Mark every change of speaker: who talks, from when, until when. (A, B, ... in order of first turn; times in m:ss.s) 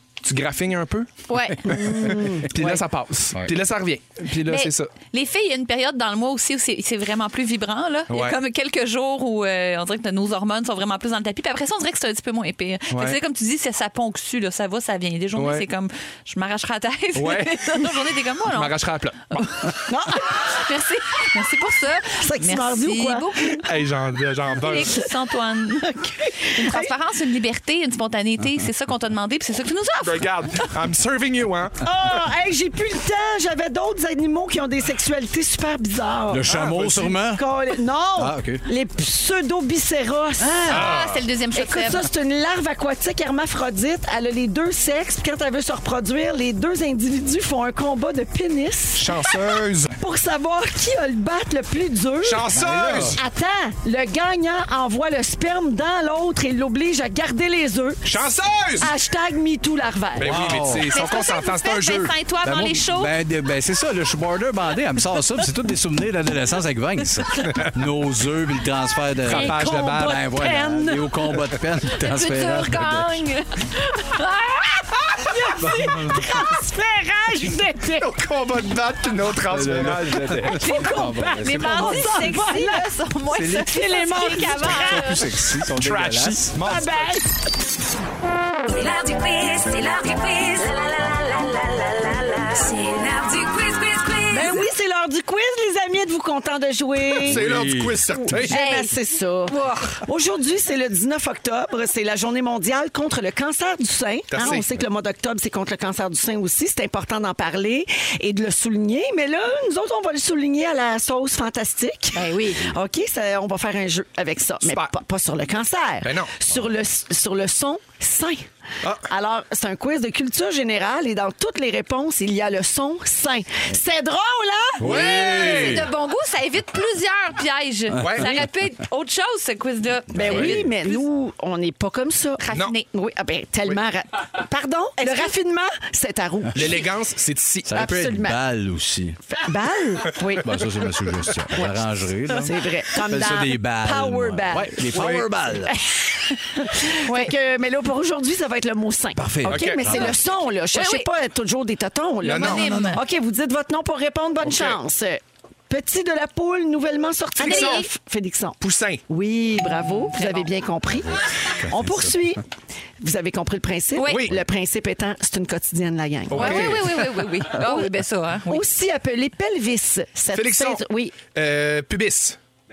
0:00.2-0:04.9 A
0:01.3-0:02.2 B
0:01.6-0:02.8 C
0:04.5-0:18.8 B
0:08.1-0:08.4 A
0:12.9-0:13.2 A
0:15.4-0:15.7 A
0:17.2-0:17.8 A
0:18.5-0:19.8 A
0:19.4-0:23.6 B
0:19.9-0:20.4 C
0:22.1-0:23.6 C
0:23.6-0:25.0 A
0:24.6-0:30.3 B
0:25.9-0:26.9 C
0:30.0-0:31.8 A
0:31.8-0:36.5 C
0:36.3-0:37.4 D
0:36.5-0:37.2 A
0:37.3-0:40.9 C
0:38.2-0:38.6 D
0:40.6-0:42.1 B
0:40.7-0:41.2 A
0:41.6-0:49.4 C
0:49.0-0:50.0 A
0:50.0-0:52.5 C
0:52.2-0:53.2 A
0:52.5-0:53.2 D
0:53.1-1:00.4 C
0:58.0-0:58.9 A
1:00.2-1:02.1 A
1:00.2-1:00.9 D
1:00.9-1:03.1 B
1:02.4-1:13.2 D
1:09.3-1:10.2 A
1:09.3-1:11.1 C
1:12.0-1:14.9 B
1:15.2-1:18.1 C
1:15.6-1:16.4 D
1:17.9-1:20.6 A
1:19.5-1:22.1 D
1:20.6-1:25.3 B
1:20.6-1:25.2 C
1:24.3-1:26.5 D
1:25.7-1:27.2 A
1:26.6-1:27.3 C
1:28.7-1:34.7 E
1:34.3-1:37.4 C
1:37.2-1:38.5 A
1:37.2-1:38.5 D
1:38.1-1:58.5 C
1:38.5-1:38.9 B
1:39.5-1:40.0 B
1:44.3-1:44.6 A
1:52.1-1:52.7 B
1:54.6-1:54.9 A
1:56.0-1:56.3 A
1:59.0-2:05.5 C
2:04.8-2:05.9 A
2:04.8-2:05.8 D
2:04.8-2:11.0 B
2:07.9-2:08.5 D
2:08.0-2:08.4 A
2:10.1-2:10.6 D
2:10.1-2:16.9 C
2:12.4-2:12.8 B
2:15.0-2:15.3 B
2:16.5-2:17.9 A
2:17.7-2:19.2 D
2:17.7-2:18.4 C
2:19.3-2:20.5 C
2:20.4-2:25.8 D
2:22.3-2:25.2 C
2:24.8-2:25.4 A
2:25.7-2:42.4 C
2:27.1-2:27.3 B
2:29.2-2:30.2 D
2:29.5-2:29.8 A
2:30.7-2:31.1 B
2:32.2-2:33.0 A
2:32.3-2:33.0 B
2:34.4-2:34.8 A
2:37.4-2:37.9 A
2:37.4-2:37.9 B
2:38.6-2:39.0 A
2:40.1-2:40.5 B
2:41.0-2:42.3 D
2:43.0-2:46.8 C
2:44.0-2:44.3 B
2:44.1-2:44.4 A
2:46.3-2:47.0 A
2:46.3-2:48.6 B
2:47.5-2:47.9 C
2:48.5-2:51.2 C
2:50.3-2:52.4 A